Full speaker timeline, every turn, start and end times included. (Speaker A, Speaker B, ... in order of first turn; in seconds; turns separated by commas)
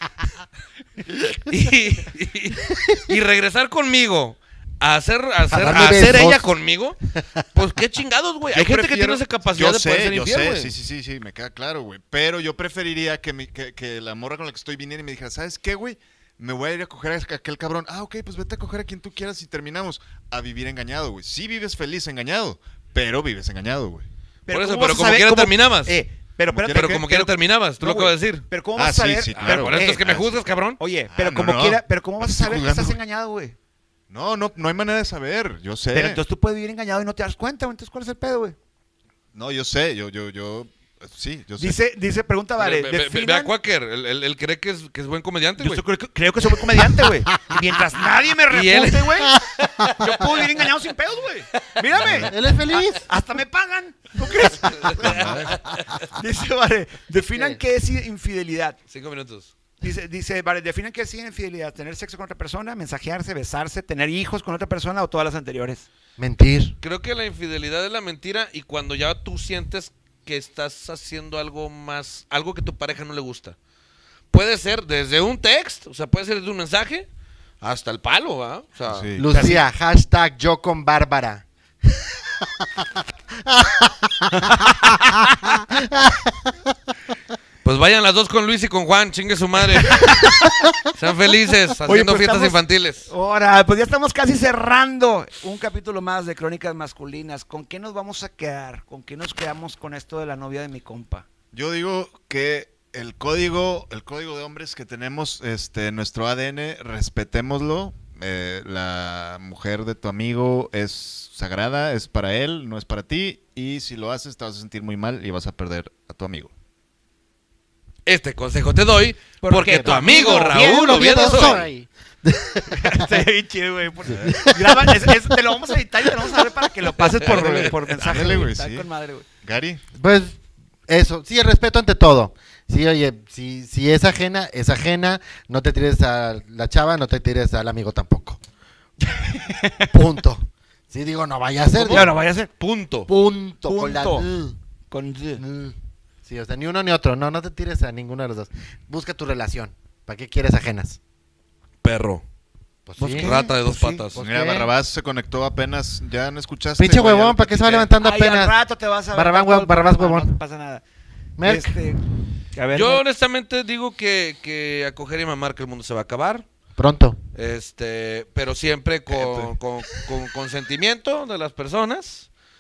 Speaker A: 1.3-7.0, Speaker B: 5.5-6.5, Speaker B: 7.2-7.4, Speaker A: 7.5-10.7, Speaker C: 8.5-24.1, Speaker D: 24.5-30.1, Speaker A: 24.5-26.0, Speaker C: 26.5-27.0, Speaker A: 26.6-28.5, Speaker C: 28.8-30.4, Speaker A: 29.4-30.8, Speaker D: 30.8-33.6, Speaker C: 31.1-33.0, Speaker C: 34.1-36.2, Speaker D: 35.9-38.6, Speaker C: 39.3-41.8, Speaker D: 41.6-43.5, Speaker A: 42.6-45.8, Speaker D: 45.6-49.4, Speaker A: 48.5-50.7, Speaker B: 49.2-50.0, Speaker D: 49.9-55.5, Speaker C: 52.0-52.3, Speaker B: 52.0-53.1, Speaker A: 54.4-56.1, Speaker C: 55.0-55.5, Speaker D: 56.1-58.8, Speaker A: 58.9-59.5, Speaker D: 59.8-65.9, Speaker B: 66.2-66.8, Speaker A: 66.8-73.6, Speaker A: 74.3-77.1, Speaker A: 77.6-79.1, Speaker C: 78.9-79.3, Speaker B: 79.2-81.5, Speaker D: 79.3-79.7, Speaker B: 82.4-86.6, Speaker D: 84.6-84.9, Speaker A: 87.6-93.1, Speaker D: 89.8-90.7, Speaker D: 91.9-101.3, Speaker C: 101.5-116.5, Speaker A: 118.1-121.7, Speaker D: 119.4-121.6, Speaker B: 119.7-123.3, Speaker D: 122.7-129.3, Speaker B: 124.0-126.5, Speaker C: 124.1-124.4, Speaker A: 127.2-128.4, Speaker C: 127.2-128.9, Speaker C: 129.4-129.8, Speaker B: 129.9-138.4, Speaker D: 139.1-139.9, Speaker B: 139.9-142.1, Speaker A: 141.8-143.1, Speaker D: 141.8-142.5, Speaker B: 143.1-144.6, Speaker D: 143.7-144.3, Speaker D: 144.9-145.4, Speaker B: 145.4-151.0, Speaker A: 151.8-152.2, Speaker B: 152.9-153.4, Speaker A: 153.0-154.2, Speaker D: 153.0-154.1, Speaker B: 154.1-154.7, Speaker C: 154.2-157.9, Speaker B: 156.8-158.6, Speaker D: 158.0-160.8, Speaker B: 159.1-160.3, Speaker B: 161.4-161.8, Speaker D: 161.4-162.0, Speaker D: 162.5-163.0, Speaker A: 162.7-166.5, Speaker B: 166.8-167.2, Speaker A: 167.3-172.3, Speaker C: 169.1-169.5